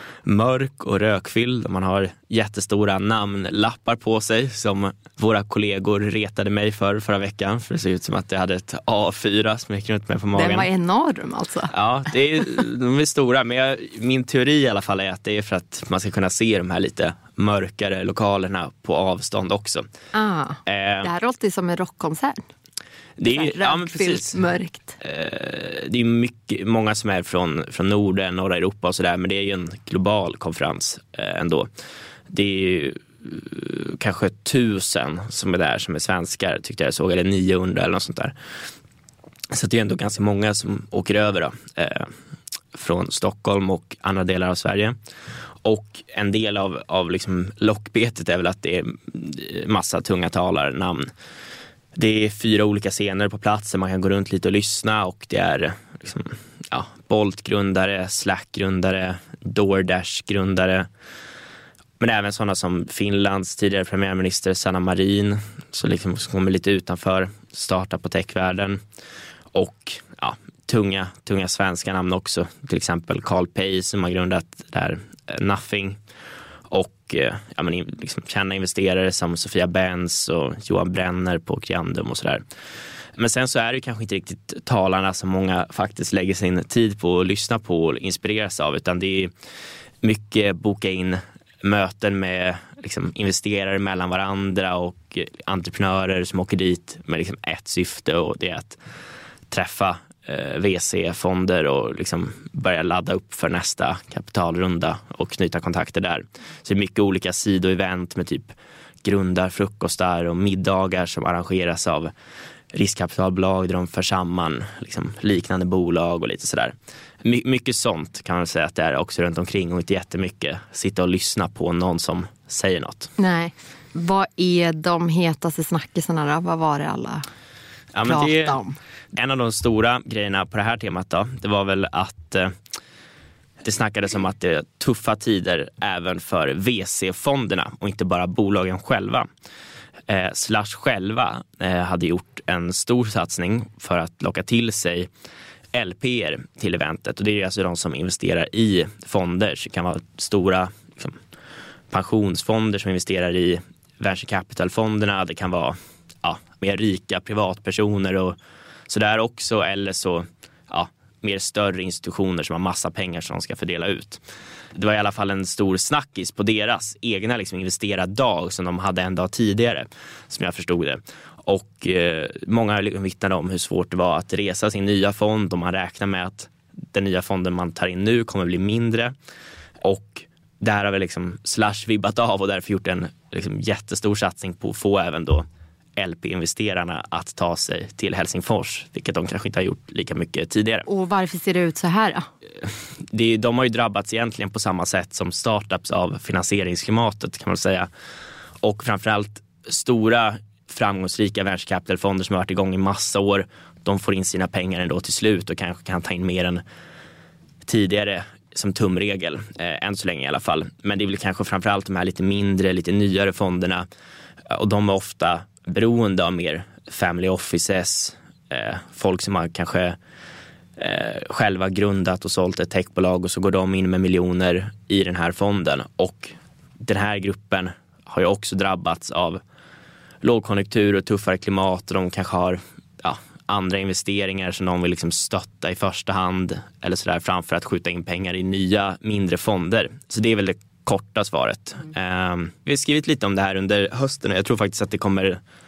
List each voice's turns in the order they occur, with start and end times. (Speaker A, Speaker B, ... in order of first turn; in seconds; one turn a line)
Speaker A: 0.2-10.7
Speaker B: 10.3-11.7
Speaker A: 11.7-19.9
Speaker B: 20.1-22.4
Speaker A: 20.7-21.1
Speaker A: 23.2-24.4
Speaker B: 23.3-25.0
Speaker A: 25.0-31.7
Speaker A: 32.3-38.3
Speaker A: 39.5-42.1
Speaker A: 42.7-45.0
Speaker A: 45.6-51.1
Speaker A: 52.0-60.9
Speaker A: 62.0-68.8
Speaker A: 69.5-76.0
Speaker A: 76.7-82.4
Speaker A: 83.2-89.3
Speaker A: 90.0-98.8
Speaker A: 99.5-112.1
Speaker A: 112.7-123.1
Speaker B: 123.2-127.3
Speaker A: 127.9-128.6
Speaker B: 128.1-128.8
Speaker A: 129.1-132.5
Speaker A: 133.6-139.3
Speaker A: 140.1-145.1
Speaker A: 145.7-151.2
Speaker A: 151.9-158.4
Speaker A: 158.9-164.2
Speaker A: 164.8-179.1
Speaker A: 179.8-185.4
Speaker A: 186.0-190.9
Speaker B: 190.9-192.3
Speaker A: 192.6-197.9
Speaker A: 198.6-206.6
Speaker A: 207.7-213.8
Speaker A: 214.5-220.0
Speaker A: 220.8-229.4
Speaker A: 230.2-245.4